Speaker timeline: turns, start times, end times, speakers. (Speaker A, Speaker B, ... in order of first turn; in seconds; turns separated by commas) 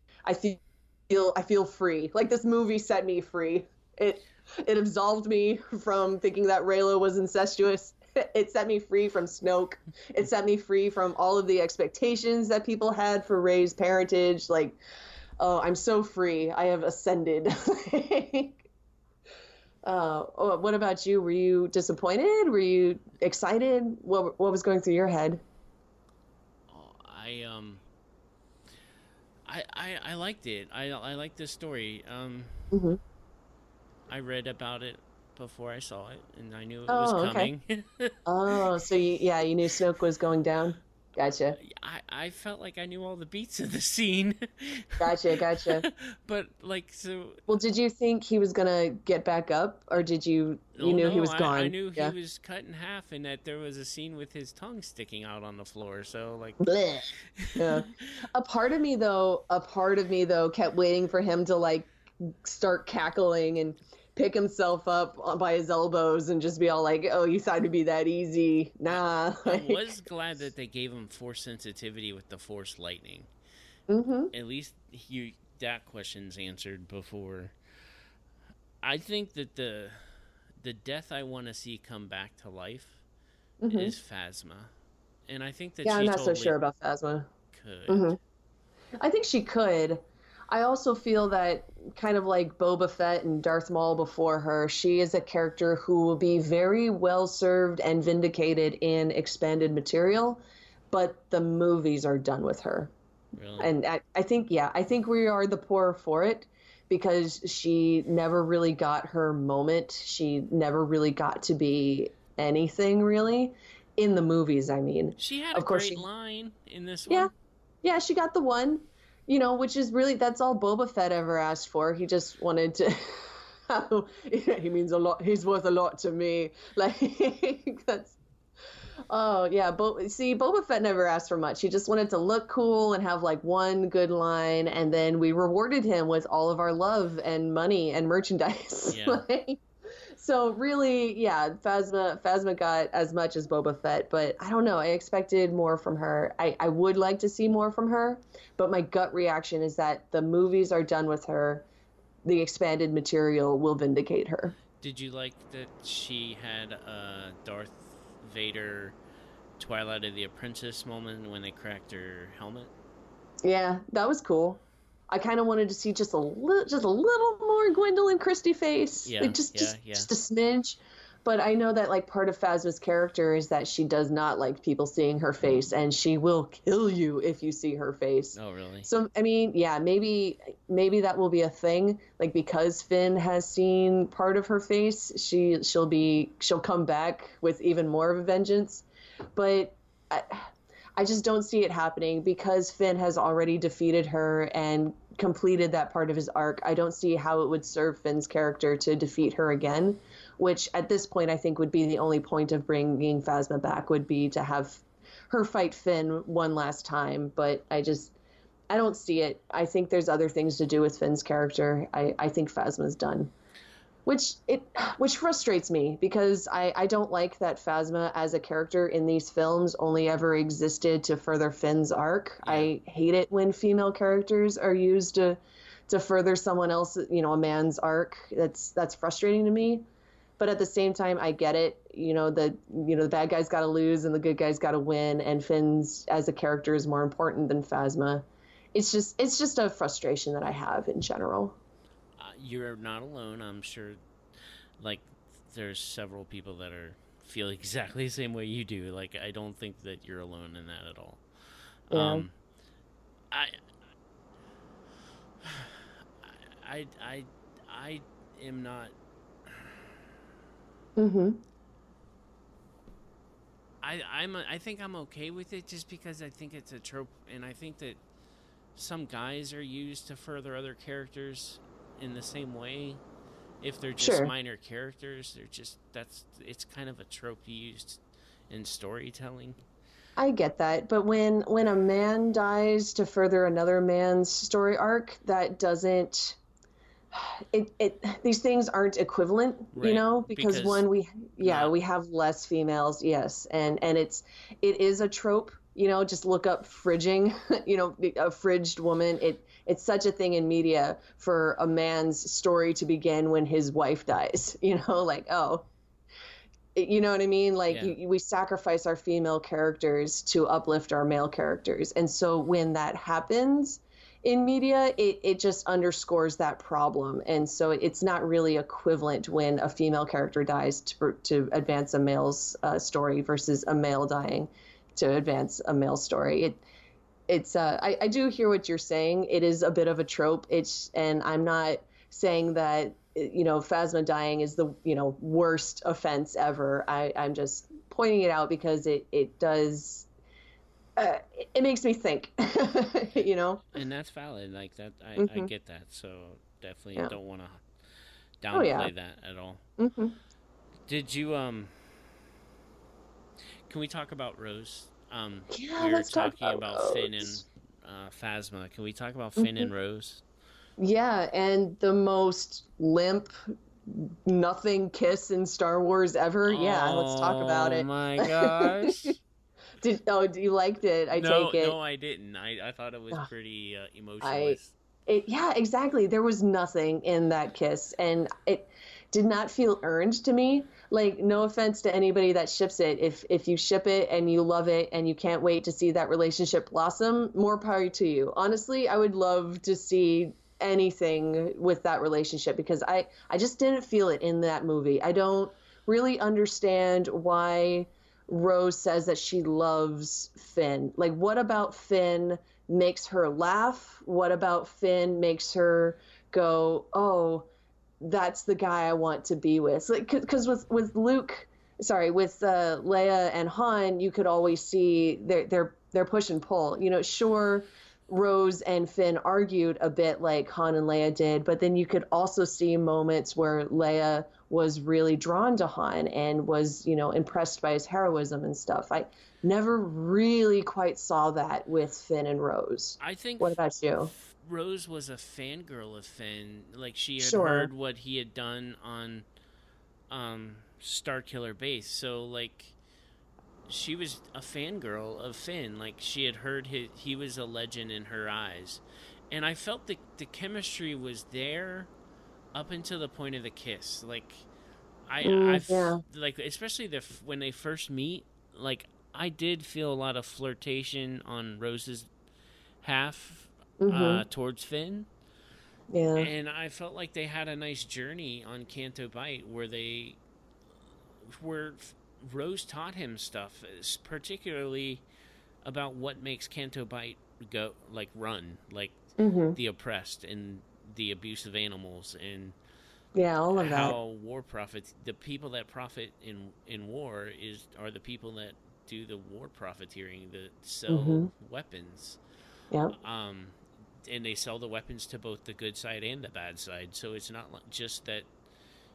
Speaker A: 0.2-14.8, Speaker A: 15.4-18.6, Speaker A: 19.8-25.4, Speaker B: 26.7-27.8, Speaker B: 29.4-32.6, Speaker A: 32.7-33.0, Speaker B: 34.1-38.2, Speaker A: 36.9-37.5, Speaker A: 38.3-41.6, Speaker B: 41.6-47.4, Speaker A: 45.0-45.9, Speaker A: 47.5-52.1, Speaker B: 50.7-56.6, Speaker A: 56.6-69.8, Speaker B: 57.4-58.0, Speaker B: 68.9-73.3, Speaker A: 73.9-74.3, Speaker B: 74.3-77.5, Speaker B: 78.8-83.0, Speaker A: 83.6-84.0, Speaker B: 83.7-84.7, Speaker B: 85.3-86.6, Speaker A: 85.8-87.3, Speaker B: 87.5-88.2, Speaker A: 87.9-88.2, Speaker A: 89.0-100.4, Speaker A: 100.9-102.9, Speaker B: 103.3-103.7, Speaker A: 103.6-116.0, Speaker B: 115.2-117.3, Speaker A: 117.8-128.2, Speaker A: 129.1-139.6, Speaker B: 138.9-139.2, Speaker A: 140.1-151.6, Speaker A: 152.2-154.6, Speaker B: 154.8-159.0, Speaker B: 159.6-162.7, Speaker A: 163.4-208.1, Speaker B: 169.1-170.1, Speaker B: 178.3-178.9, Speaker A: 208.7-213.3, Speaker A: 214.1-229.8, Speaker B: 222.4-222.7, Speaker A: 230.4-241.6, Speaker B: 242.2-244.0, Speaker B: 244.8-251.2, Speaker B: 251.9-252.3, Speaker A: 251.9-252.3, Speaker B: 253.3-253.6, Speaker B: 255.4-258.9, Speaker B: 259.4-259.9, Speaker A: 260.9-261.4, Speaker B: 263.8-268.0, Speaker B: 268.7-273.0, Speaker B: 273.6-279.6, Speaker A: 274.0-274.3, Speaker A: 280.2-286.4, Speaker A: 287.1-305.7, Speaker B: 289.7-290.8, Speaker B: 291.4-291.7, Speaker A: 306.7-326.6, Speaker B: 307.7-307.9, Speaker A: 327.3-340.1, Speaker A: 340.9-343.6, Speaker B: 343.7-347.6, Speaker A: 345.2-345.5, Speaker B: 348.4-349.6, Speaker A: 348.5-348.9, Speaker A: 349.8-350.1, Speaker B: 350.9-351.7, Speaker B: 353.7-360.2, Speaker A: 355.5-357.4, Speaker A: 359.4-359.7, Speaker A: 360.8-363.3, Speaker A: 363.9-369.1, Speaker B: 366.4-369.2, Speaker A: 369.8-371.7, Speaker B: 371.1-374.7, Speaker A: 374.2-407.5, Speaker A: 408.0-434.1, Speaker B: 433.0-439.3, Speaker A: 437.2-437.7, Speaker B: 440.1-442.7, Speaker B: 443.7-451.9, Speaker B: 452.5-454.5, Speaker B: 455.1-462.1, Speaker A: 455.2-456.0, Speaker B: 462.8-465.1, Speaker A: 463.8-464.2, Speaker A: 465.9-466.3, Speaker B: 466.2-470.2, Speaker B: 471.3-475.1, Speaker B: 475.6-482.6, Speaker A: 479.2-479.6, Speaker A: 483.1-484.0, Speaker B: 483.5-492.2, Speaker A: 490.9-491.3, Speaker B: 492.9-498.3